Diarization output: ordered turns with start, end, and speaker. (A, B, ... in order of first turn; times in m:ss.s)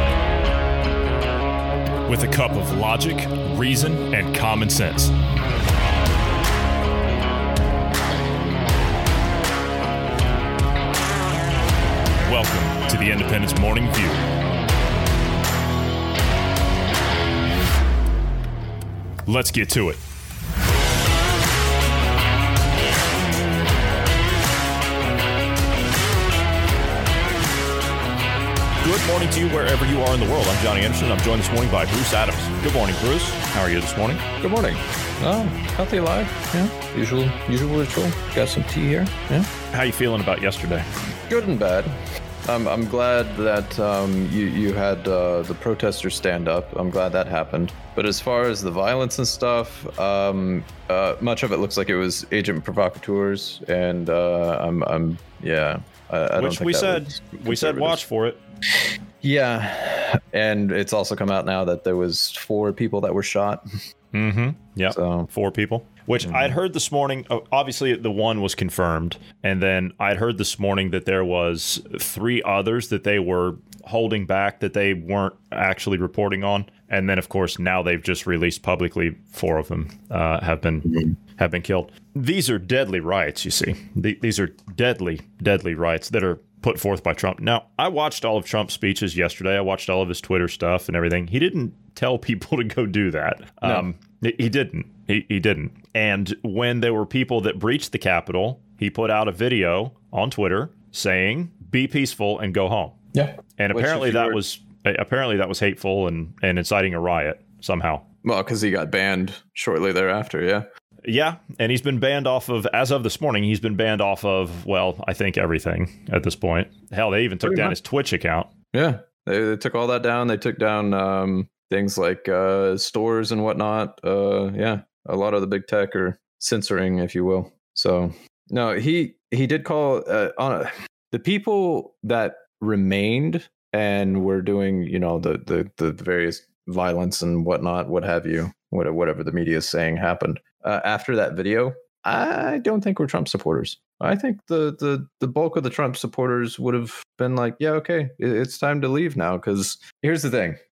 0:02.1-0:05.1 A
0:12.3-0:14.2 A
0:19.3-0:20.0 A
0:28.8-0:34.2 A
0:34.4-0:39.5 B
0:39.7-0:40.9 A
0:41.3-0:41.9 B
0:42.5-0:58.0 B
0:56.4-0:58.4 A
0:59.2-1:03.6 B
1:04.1-1:43.0 A
1:04.9-1:05.3 B
1:06.3-1:06.6 B
1:43.1-1:44.4 B
1:43.6-1:48.1 A
1:48.2-1:50.7 B
1:51.0-1:58.5 A
1:57.4-1:57.8 B
1:58.7-2:30.6 B